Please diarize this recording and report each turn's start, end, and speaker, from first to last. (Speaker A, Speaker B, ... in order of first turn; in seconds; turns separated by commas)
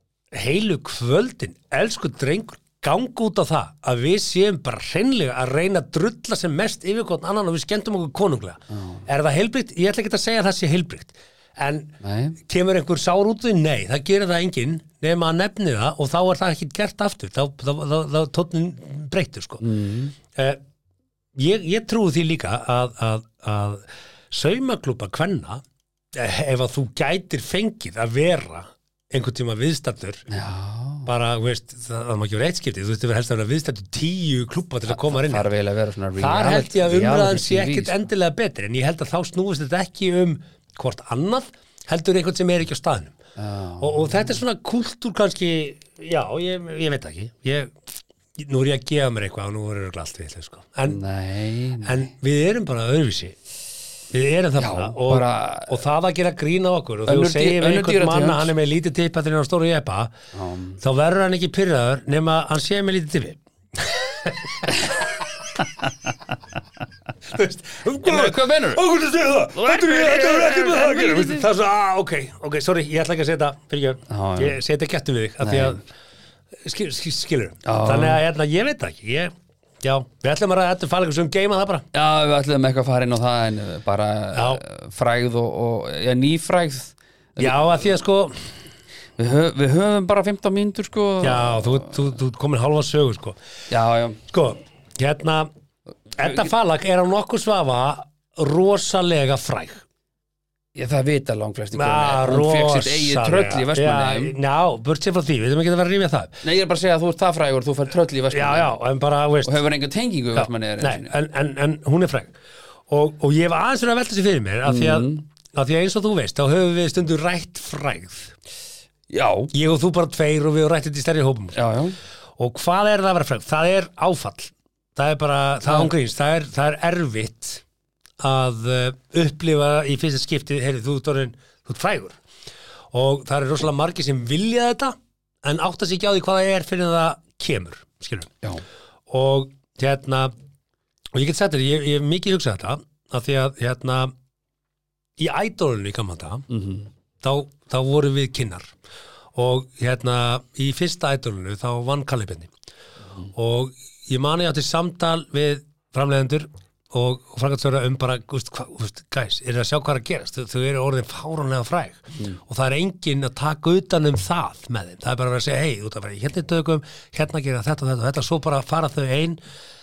Speaker A: 0.3-11.9, Speaker B: 8.7-9.1, Speaker B: 12.0-12.4, Speaker A: 12.4-19.6, Speaker B: 19.6-20.1, Speaker A: 20.3-20.6, Speaker A: 21.4-25.6, Speaker A: 26.1-30.3, Speaker B: 30.3-31.1, Speaker A: 31.1-35.5, Speaker B: 34.9-38.0, Speaker A: 36.2-43.1, Speaker B: 43.4-44.4, Speaker A: 43.8-51.0, Speaker B: 50.9-52.1, Speaker A: 51.8-53.4, Speaker A: 54.1-60.1, Speaker B: 54.6-55.8, Speaker B: 57.1-58.5, Speaker B: 60.3-60.8, Speaker A: 60.8-65.0, Speaker A: 67.3-75.8, Speaker B: 68.0-68.8, Speaker B: 69.5-71.5, Speaker B: 74.1-74.6, Speaker B: 75.4-75.8, Speaker A: 76.6-81.8, Speaker B: 77.6-78.2, Speaker B: 81.9-87.6, Speaker A: 84.3-84.6, Speaker A: 87.4-88.3, Speaker B: 89.2-92.0, Speaker A: 91.2-93.4, Speaker B: 93.7-94.2, Speaker A: 94.3-95.5, Speaker A: 96.2-99.8, Speaker B: 96.2-96.5, Speaker B: 100.7-104.3, Speaker A: 101.7-106.3, Speaker B: 106.4-108.7, Speaker A: 108.3-109.6, Speaker B: 109.4-111.1, Speaker A: 110.3-112.3, Speaker A: 112.9-118.3, Speaker B: 114.6-115.2, Speaker B: 119.1-119.5, Speaker A: 119.5-121.6, Speaker B: 121.5-122.0, Speaker A: 122.4-127.6, Speaker B: 125.7-125.9, Speaker A: 128.2-132.2, Speaker A: 132.9-138.3, Speaker A: 139.1-140.3, Speaker A: 141.1-144.1, Speaker A: 145.2-146.4, Speaker B: 146.5-146.9, Speaker A: 147.2-148.7, Speaker A: 149.3-152.5, Speaker A: 153.3-169.4, Speaker B: 162.1-162.4